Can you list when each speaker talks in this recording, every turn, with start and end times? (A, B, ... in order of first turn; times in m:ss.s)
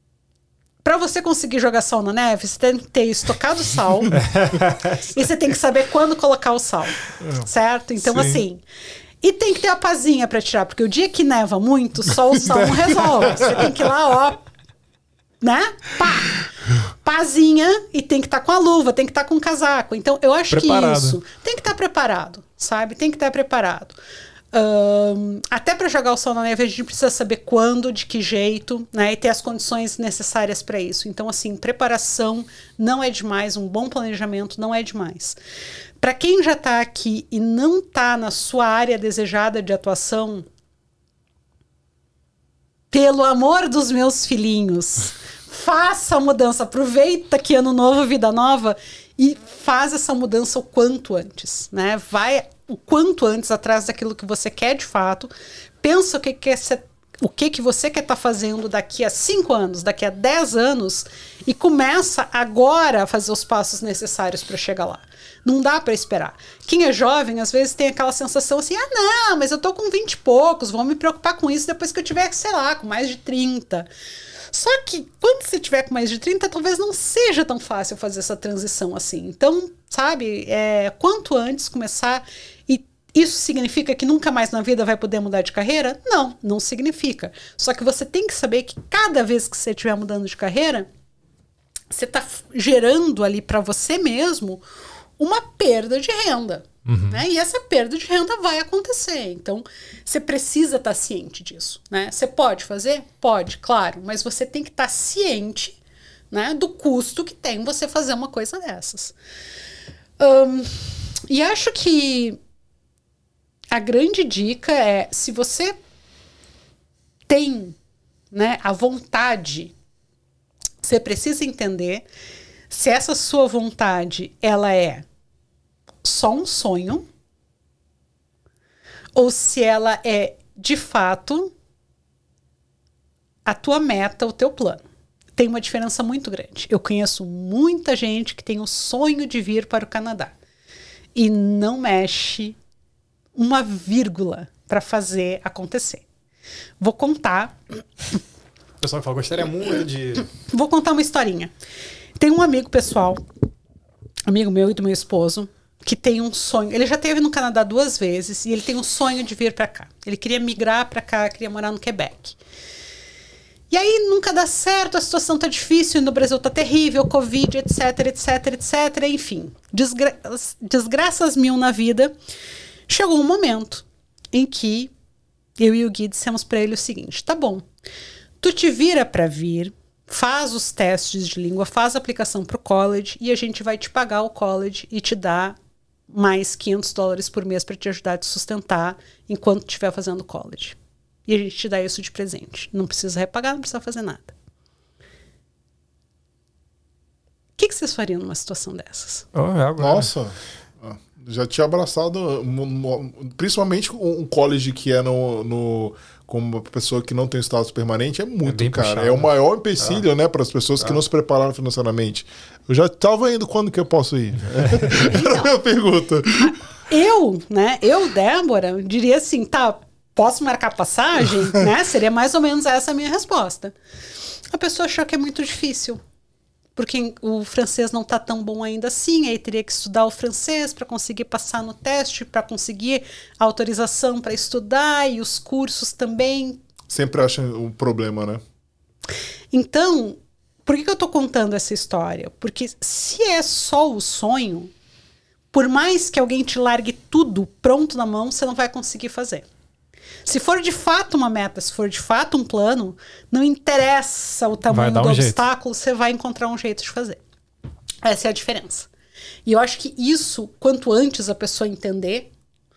0:00.8-0:04.2 A
0:04.1-0:05.0 B
0:05.1-0:08.6 A
0:09.2-0:14.4 A
0:15.4-0:24.0 A
0:20.5-0:21.2 B
0:24.5-0:35.4 A
0:36.0-0:40.4 A
0:42.9-1:13.9 A
1:14.5-1:30.9 A
1:31.9-1:34.6 A
1:35.2-1:45.8 A
1:36.8-1:37.2 B
1:46.3-1:49.1 A
1:50.2-1:52.4 A
1:53.7-1:55.8 A
1:57.3-1:57.8 A
1:58.3-1:59.7 A
2:00.8-2:02.0 A
2:02.7-2:05.0 A
2:06.0-2:07.0 A
2:09.1-2:11.5 A
2:13.4-2:14.8 A
2:15.4-2:20.3 A
2:21.1-2:22.6 A
2:23.4-2:26.0 A
2:26.8-2:27.5 A
2:28.8-2:30.3 B
2:30.5-2:31.5 A
2:32.2-2:33.2 A
2:34.3-2:42.4 A
2:43.7-2:52.1 A
2:52.9-2:54.9 A
2:55.6-2:57.6 A
2:58.4-3:05.6 A
3:06.1-3:14.3 A
3:17.6-3:19.2 A
3:19.3-3:20.1 B
3:19.8-3:36.5 C
3:28.4-3:30.0 B
3:35.1-3:35.5 A
3:36.4-3:43.7 A
3:44.5-3:46.0 A
3:46.8-3:56.6 A
3:56.9-3:58.4 C
3:59.5-4:04.7 A
4:05.5-4:09.5 A
4:10.2-4:17.2 A
4:14.7-4:15.4 B
4:18.0-4:18.9 A
4:19.4-4:22.3 A